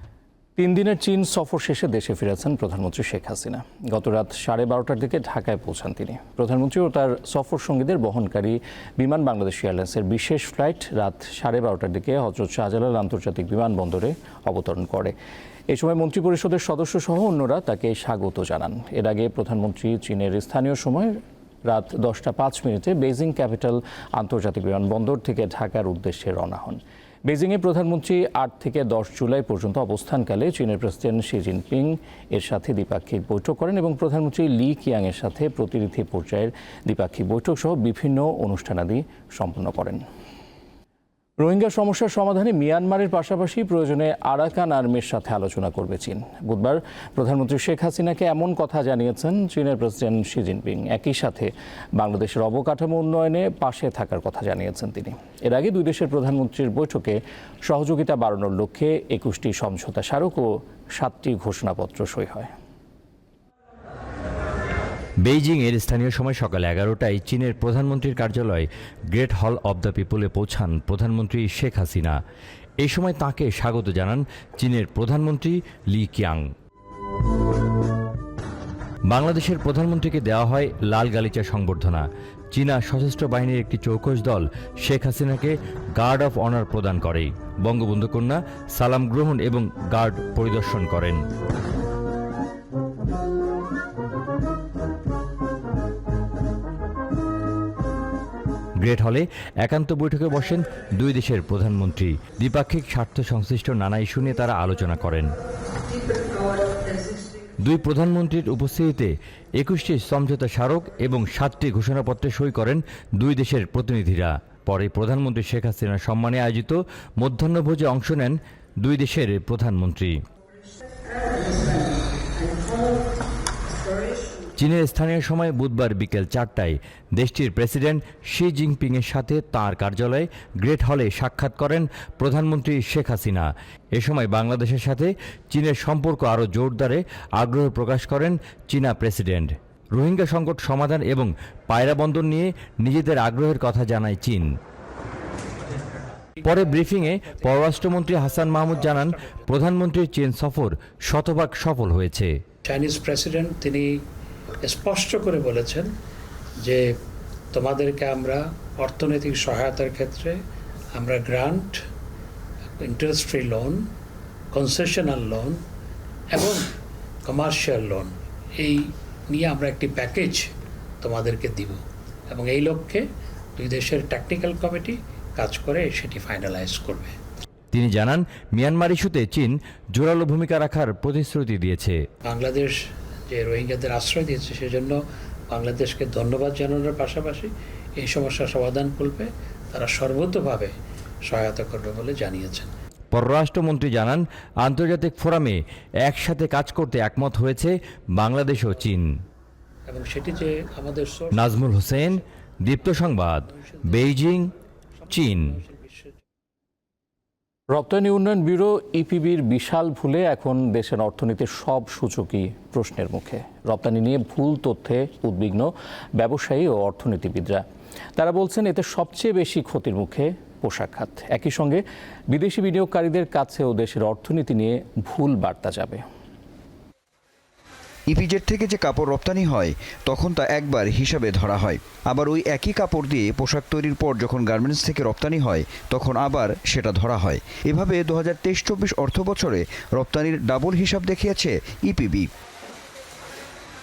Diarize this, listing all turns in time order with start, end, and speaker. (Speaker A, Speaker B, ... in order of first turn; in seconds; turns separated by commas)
Speaker A: 0.6-15.2, Speaker A: 15.7-40.0, Speaker A: 41.4-62.5, Speaker B: 65.2-72.2, Speaker B: 72.8-76.5, Speaker B: 79.1-91.2, Speaker B: 98.8-105.3, Speaker B: 107.6-120.2, Speaker B: 124.6-144.5, Speaker B: 146.4-152.3, Speaker C: 146.8-147.6, Speaker C: 148.8-149.3, Speaker C: 152.7-153.9, Speaker C: 154.6-155.9, Speaker C: 157.5-160.4, Speaker C: 160.9-161.8, Speaker C: 162.8-163.9, Speaker C: 164.5-165.6, Speaker C: 166.3-166.7, Speaker C: 167.3-170.5, Speaker C: 171.0-171.8, Speaker C: 172.3-173.1, Speaker C: 173.6-177.2, Speaker B: 177.7-182.0, Speaker C: 182.3-182.8, Speaker C: 183.3-185.0, Speaker C: 185.5-190.7, Speaker C: 191.3-192.7, Speaker B: 193.1-199.1, Speaker C: 199.9-202.1, Speaker B: 201.3-204.5, Speaker B: 205.1-205.6, Speaker C: 205.7-206.1, Speaker A: 207.7-217.6, Speaker A: 218.2-226.0, Speaker D: 228.1-242.3